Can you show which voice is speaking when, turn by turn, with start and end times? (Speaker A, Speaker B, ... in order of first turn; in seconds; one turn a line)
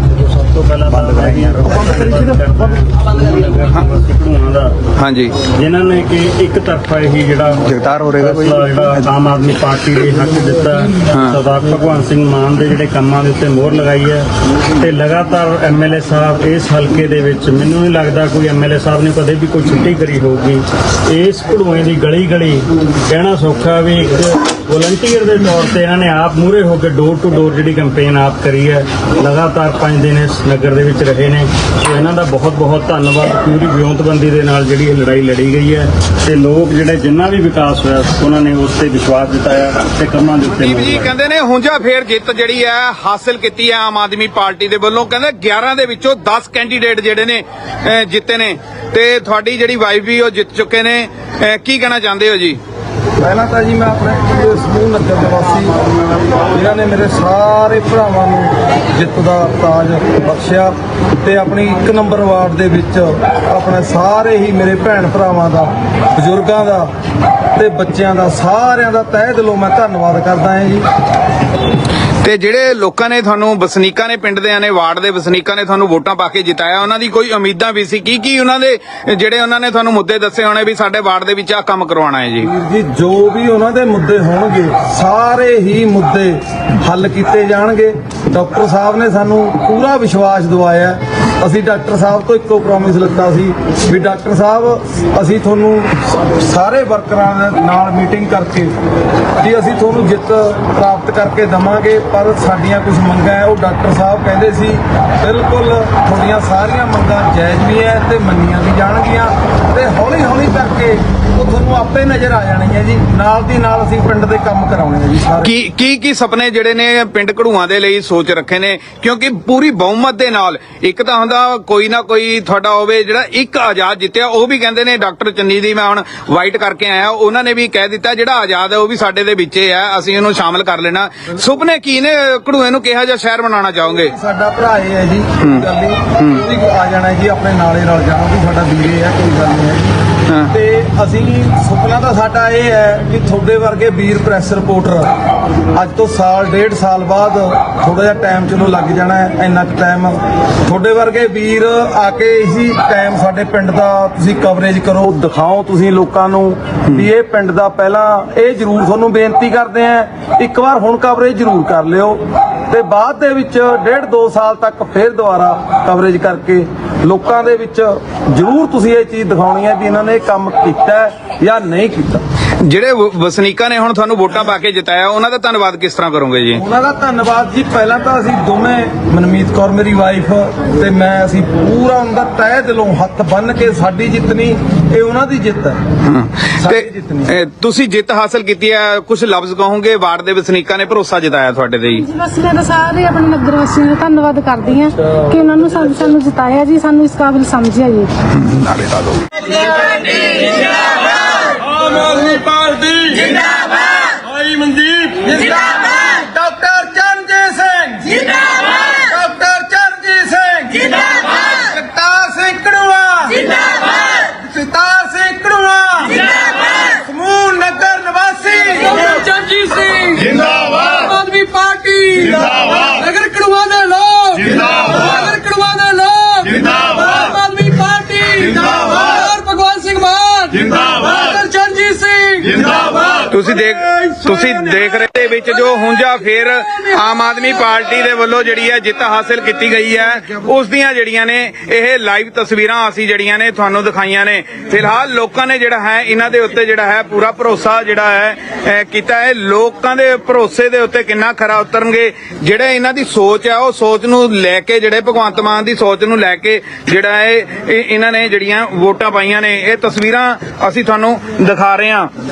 Speaker A: 0.2-4.8
Speaker B: 5.0-5.3
Speaker A: 5.6-14.3
Speaker B: 11.1-11.4
Speaker A: 14.8-41.1
Speaker B: 40.6-52.6
Speaker C: 53.2-55.8
Speaker C: 56.5-66.9
Speaker C: 67.6-70.9
Speaker B: 72.2-82.5
Speaker C: 82.4-98.7
Speaker C: 99.4-115.5
Speaker B: 115.4-134.1
Speaker C: 134.0-139.9
Speaker C: 140.5-145.1
Speaker C: 145.8-172.2
Speaker B: 172.6-176.6
Speaker C: 176.6-185.8
Speaker B: 186.1-192.1
Speaker C: 186.6-187.3
Speaker D: 192.0-198.1
Speaker B: 198.3-199.4
Speaker C: 199.7-200.8
Speaker C: 201.4-219.1
Speaker E: 218.9-233.2
Speaker B: 233.3-262.1